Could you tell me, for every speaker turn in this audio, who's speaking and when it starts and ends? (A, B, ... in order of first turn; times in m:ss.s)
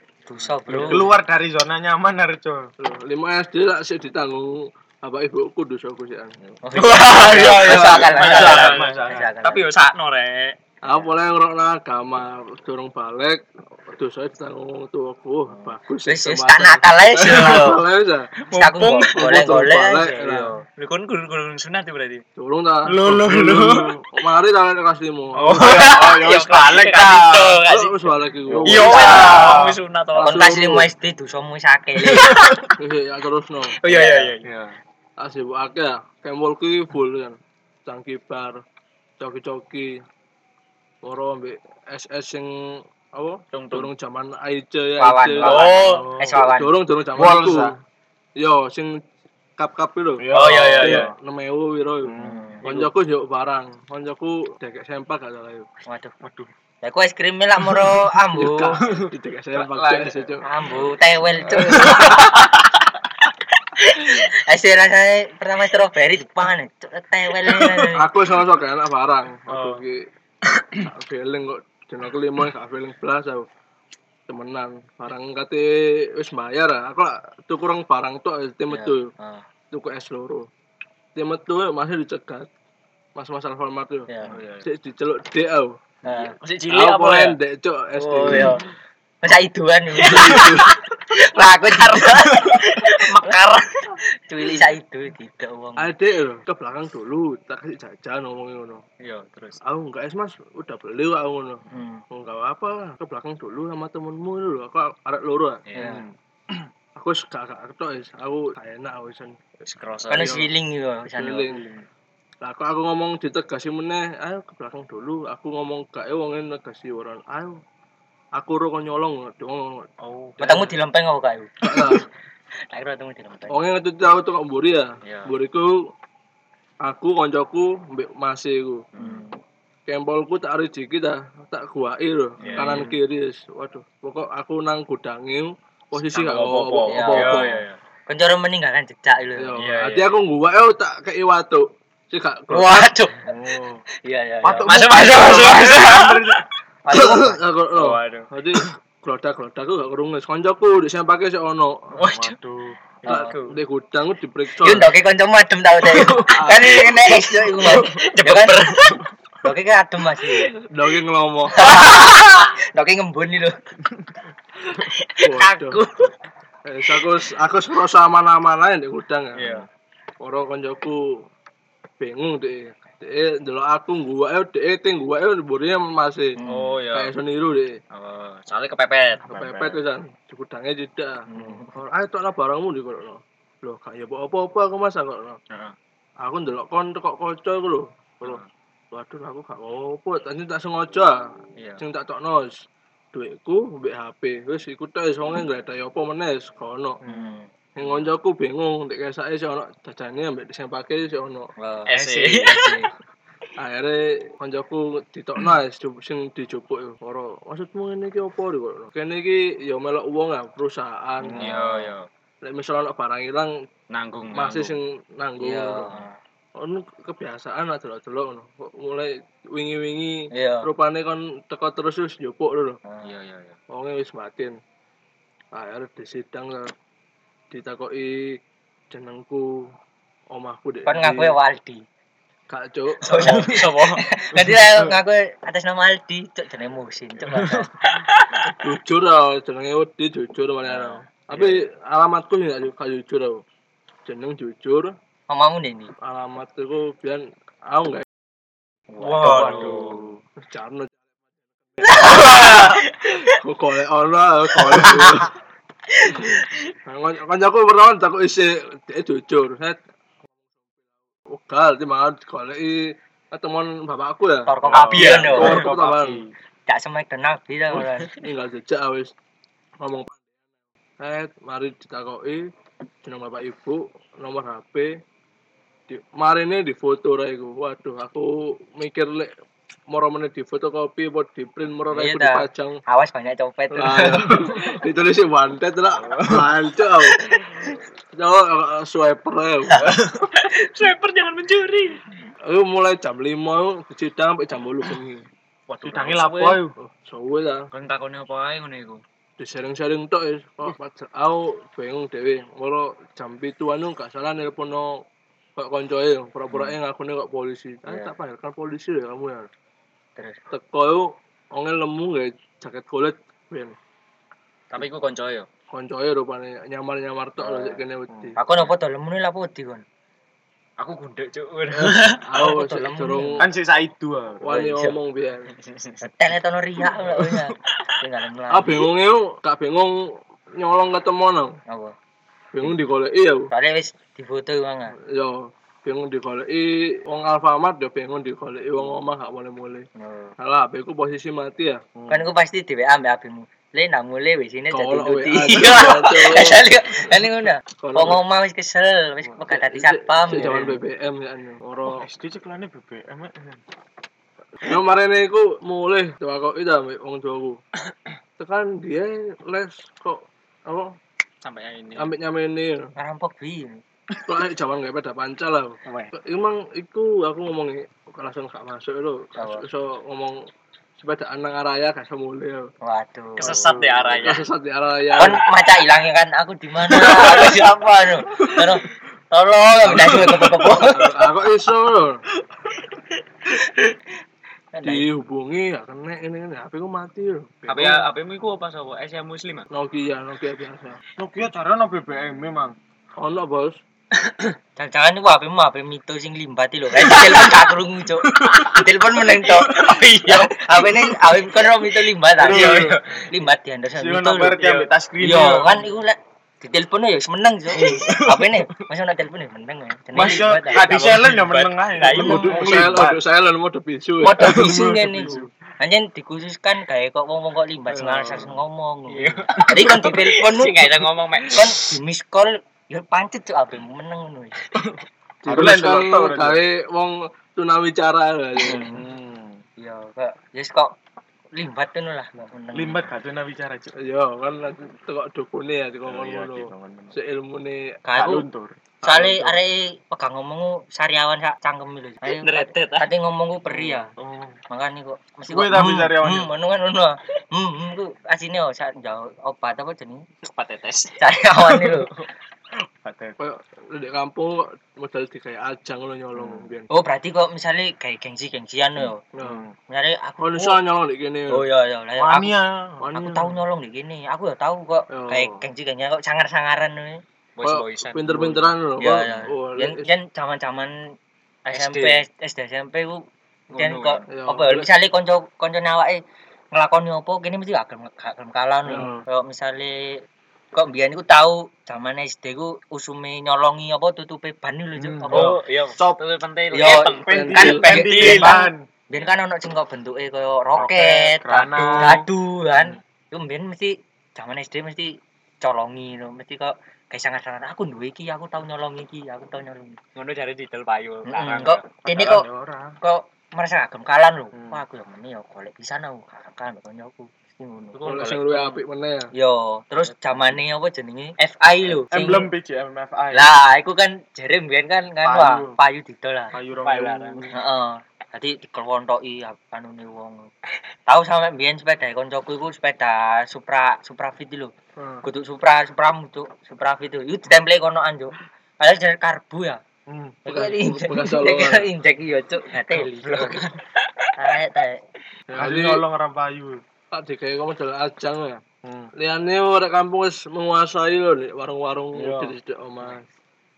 0:00.3-0:01.1 A
0:00.9-0:02.7 B
0:02.8-0:06.4 C
0:06.6-0:09.7 A
0:06.7-0:10.6 D
0:07.1-0:09.3 B
0:10.8-0:18.3 C
0:15.5-0:17.8 A
0:18.4-0:19.4 D
0:18.5-0:20.6 A
0:19.2-0:20.5 C
0:20.8-0:22.2 D
0:22.4-0:25.8 C
0:22.9-0:24.0 D
0:23.2-0:24.0 B
0:25.4-0:30.6 D
0:25.6-0:27.6 B
0:27.7-0:30.9 C
0:28.5-0:29.8 B
0:28.8-0:29.3 A
0:30.2-0:32.4 A
0:32.1-0:32.7 D
0:32.8-0:33.8 C
0:33.8-0:34.5 D
0:33.9-0:34.3 A
0:34.4-0:34.8 B
0:35.2-0:38.6 C
0:39.2-0:40.0 C
0:41.0-0:47.8 C
0:43.5-0:43.9 D
0:45.0-0:46.8 A
0:45.4-0:46.0 D
0:45.9-0:46.4 B
0:47.2-0:47.8 B
0:48.4-0:49.0 C
0:49.6-0:50.3 C
0:50.2-0:51.1 B
0:50.3-0:51.1 D
0:50.8-0:55.7 C
0:52.0-0:52.5 B
0:52.2-0:52.6 A
0:52.6-0:52.9 D
0:55.9-0:56.1 A
0:56.2-0:56.5 B
0:56.8-0:58.8 A
0:57.6-0:58.0 B
0:58.3-1:00.4 C
0:58.9-1:00.3 B
1:00.4-1:02.5 A
1:01.5-1:02.3 B
1:03.8-1:08.1 A
1:07.9-1:10.0 C
1:09.5-1:09.8 D
1:10.8-1:13.5 C
1:14.3-1:19.1 C
1:18.7-1:19.4 A
1:19.7-1:20.5 C
1:21.2-1:22.5 C
1:23.2-1:24.1 C
1:24.1-1:24.4 A
1:24.2-1:24.7 D
1:24.6-1:25.8 C
1:26.0-1:26.4 A
1:26.1-1:27.4 D
1:26.7-1:28.6 C
1:28.0-1:28.6 A
1:28.1-1:28.6 D
1:29.2-1:33.4 A
1:30.0-1:30.7 C
1:30.0-1:30.8 D
1:31.6-1:34.0 D
1:34.3-1:35.9 A
1:35.8-1:38.8 C
1:39.0-1:39.6 D
1:39.6-1:45.6 C
1:41.7-1:42.0 A
1:45.7-1:46.0 D
1:45.8-1:46.0 A
1:45.8-1:46.2 B
1:47.0-1:49.4 C
1:49.6-1:50.5 D
1:50.1-1:51.5 A
1:50.2-1:50.5 C
1:51.1-1:51.6 C
1:51.5-1:51.8 B
1:52.4-1:57.6 C
1:58.4-1:59.9 C
2:00.0-2:00.7 D
2:00.4-2:02.0 A
2:01.6-2:02.0 C
2:02.7-2:03.6 A
2:03.5-2:05.9 C
2:05.0-2:05.3 D
2:06.8-2:08.8 C
2:09.0-2:09.2 D
2:09.0-2:09.4 A
2:09.9-2:17.6 C
2:12.4-2:12.9 D
2:12.5-2:13.0 A
2:16.0-2:17.8 D
2:16.9-2:17.6 A
2:18.1-2:19.6 A
2:19.4-2:22.9 C
2:19.6-2:20.2 D
2:22.5-2:23.2 A
2:23.2-2:23.8 B
2:24.0-2:25.4 A
2:24.4-2:26.4 B
2:24.7-2:26.3 D
2:26.8-2:27.4 A
2:26.9-2:31.9 C
2:27.7-2:28.3 D
2:32.0-2:32.4 D
2:32.0-2:32.8 B
2:33.0-2:33.6 D
2:33.1-2:34.9 C
2:34.6-2:38.6 A
2:35.9-2:36.9 C
2:37.6-2:39.0 D
2:39.4-2:40.5 A
2:40.7-2:41.6 C
2:41.6-2:43.6 A
2:45.2-2:45.8 C
2:45.4-2:45.8 A
2:46.6-2:49.5 C
2:49.4-2:49.7 D
2:50.2-2:51.2 C
2:52.0-2:56.4 C
2:56.4-2:56.8 A
2:56.5-2:57.1 D
2:56.9-2:57.8 C
2:57.9-2:59.8 D
2:59.3-3:05.4 C
3:01.3-3:01.7 A
3:06.2-3:12.6 C
3:08.2-3:08.5 D
3:11.6-3:11.8 D
3:13.1-3:17.0 C
3:17.0-3:17.4 B
3:17.1-3:17.5 A
3:17.8-3:21.5 C
3:17.8-3:18.1 D
3:21.6-3:22.9 A
3:21.9-3:22.8 D
3:22.2-3:22.5 B
3:23.6-3:31.4 C
3:31.2-3:31.5 B
3:31.4-3:32.1 D
3:31.4-3:31.9 A
3:32.4-3:33.6 C
3:33.9-3:34.8 D
3:34.3-3:35.9 C
3:35.4-3:36.1 A
3:36.6-3:42.8 C
3:40.3-3:40.7 A
3:42.9-3:43.1 A
3:43.0-3:43.6 D
3:43.7-3:44.6 C
3:45.5-3:46.7 C
3:47.5-3:49.7 C
3:50.3-3:51.4 C
3:50.9-3:51.8 A
3:52.5-3:53.5 C
3:53.0-3:57.7 A
3:53.1-3:54.0 D
3:57.4-3:58.5 D
3:58.5-4:03.4 C
4:00.7-4:01.6 D
4:04.1-4:05.0 C
4:05.3-4:05.9 A
4:06.0-4:08.1 C
4:08.9-4:09.7 A
4:09.0-4:10.0 D
4:09.2-4:10.2 B
4:10.4-4:11.1 C
4:11.7-4:15.3 C
4:11.9-4:12.8 A
4:12.0-4:12.8 D
4:14.8-4:15.2 A
4:16.9-4:19.8 C
4:21.2-4:26.2 C
4:24.5-4:25.6 A
4:24.7-4:26.3 B
4:24.7-4:25.7 D
4:26.7-4:28.1 A
4:28.2-4:29.1 C
4:29.8-4:30.3 C
4:31.0-4:32.5 C
4:33.0-4:35.0 C
4:35.9-4:39.3 C
4:39.9-4:42.8 C
4:41.9-4:44.5 A
4:43.7-4:47.3 C
4:48.2-4:50.0 C
4:50.2-4:52.0 D
4:52.5-4:55.2 C
4:55.7-4:56.6 D
4:55.8-4:56.7 B
4:56.8-4:57.7 C
4:57.7-4:59.0 D
4:59.4-5:05.0 C
5:05.6-5:09.5 C
5:07.9-5:08.1 A
5:10.5-5:13.8 C
5:14.7-5:15.5 D
5:15.7-5:18.4 C
5:17.4-5:17.8 A
5:18.1-5:18.4 B
5:18.4-5:19.8 A
5:20.8-5:22.2 D
5:21.7-5:23.5 C
5:22.4-5:23.5 A
5:23.4-5:24.6 B
5:24.4-5:25.5 C
5:24.5-5:25.0 A
5:25.6-5:26.0 D
5:26.0-5:28.8 A
5:27.1-5:27.4 D
5:28.5-5:30.0 C
5:30.6-5:31.6 C
5:31.7-5:32.0 A
5:32.5-5:33.5 C
5:33.5-5:35.0 A
5:35.1-5:39.9 C
5:40.0-5:40.3 A
5:40.4-5:41.8 C
5:42.0-5:42.3 B
5:42.1-5:50.8 A
5:44.7-5:46.6 C
5:47.8-5:48.2 C
5:49.5-5:52.1 C
5:51.8-5:53.6 B
5:54.6-5:57.6 C
5:58.4-6:01.0 C
6:01.4-6:02.1 D
6:02.0-6:02.9 C
6:03.0-6:03.8 A
6:04.3-6:10.4 C
6:05.9-6:06.1 B
6:09.4-6:09.6 A
6:11.0-6:12.7 C
6:12.8-6:13.6 A
6:13.4-6:14.5 D
6:13.6-6:14.0 B
6:14.1-6:15.4 C
6:15.2-6:21.1 A
6:19.9-6:22.2 C
6:24.7-6:25.1 A
6:24.8-6:28.1 C
6:27.7-6:29.7 D
6:29.7-6:31.0 C
6:31.2-6:32.8 B
6:33.2-6:33.8 C
6:34.8-6:44.6 A
6:37.1-6:37.6 D
6:38.4-6:38.7 D
6:39.7-6:40.5 D
6:42.4-6:43.0 B
6:42.4-6:43.0 D
6:44.0-6:45.8 B
6:44.6-6:44.9 D
6:45.2-6:51.0 A
6:47.8-6:48.6 B
6:50.1-6:53.2 B
6:50.7-6:53.0 D
6:52.1-6:55.4 C
6:54.2-7:04.6 A
6:54.3-6:55.5 B
6:58.0-6:58.5 B
6:59.1-7:01.9 D
7:05.4-7:08.8 C
7:05.5-7:06.6 B
7:08.6-7:09.0 D
7:08.7-7:09.6 B
7:09.8-7:10.9 A
7:11.5-7:13.1 A
7:12.7-7:13.9 B
7:14.0-7:18.0 C
7:16.1-7:17.2 B
7:18.0-7:18.5 A
7:18.2-7:18.8 B
7:19.0-7:24.1 A
7:19.0-7:19.6 C
7:22.2-7:23.1 D
7:23.8-7:24.6 B
7:24.7-7:30.2 A
7:25.5-7:26.5 B
7:30.4-7:31.2 D
7:31.2-7:32.1 A
7:33.0-7:33.4 B
7:33.4-7:36.9 C
7:36.4-7:36.7 B
7:36.9-7:39.2 A
7:39.4-7:39.6 C
7:39.4-7:39.7 B
7:39.9-7:40.8 A
7:40.4-7:41.7 C
7:41.5-7:42.5 A
7:42.2-7:43.1 B
7:43.0-7:43.6 C
7:43.1-7:47.2 A
7:45.1-7:45.6 C
7:47.6-7:48.7 D
7:47.6-7:50.1 C
7:49.0-7:51.1 A
7:51.7-7:52.2 D
7:51.7-7:53.2 A
7:53.7-7:54.2 D
7:53.7-7:56.2 A
7:54.3-7:54.9 C
7:56.7-8:00.2 A
7:58.9-7:59.2 C
8:00.7-8:05.6 A
8:05.0-8:06.2 B
8:05.3-8:08.6 D
8:06.7-8:11.4 A
8:07.3-8:07.8 C
8:07.3-8:08.8 B
8:10.8-8:12.2 B
8:11.5-8:12.3 D
8:12.0-8:20.0 A
8:20.2-8:21.9 D
8:21.3-8:22.5 A
8:22.0-8:23.0 B
8:23.0-8:28.3 A
8:24.5-8:24.8 B
8:28.0-8:28.8 D
8:28.0-8:29.3 C
8:29.3-8:32.5 A
8:32.1-8:33.5 B
8:33.3-8:36.6 A
8:35.2-8:35.8 B
8:36.5-8:37.6 B
8:36.8-8:37.5 D
8:37.5-8:40.5 A
8:41.1-8:44.7 A
8:45.0-8:45.2 C
8:45.2-8:49.8 A
8:50.1-8:50.4 B
8:50.4-8:53.7 A
8:50.5-8:51.9 C
8:52.9-8:54.3 D
8:54.4-8:55.0 A
8:55.5-8:56.0 C
8:55.5-8:56.8 B
8:57.1-8:58.6 C
8:58.8-8:59.1 B
8:59.2-9:03.3 C
9:02.1-9:02.6 B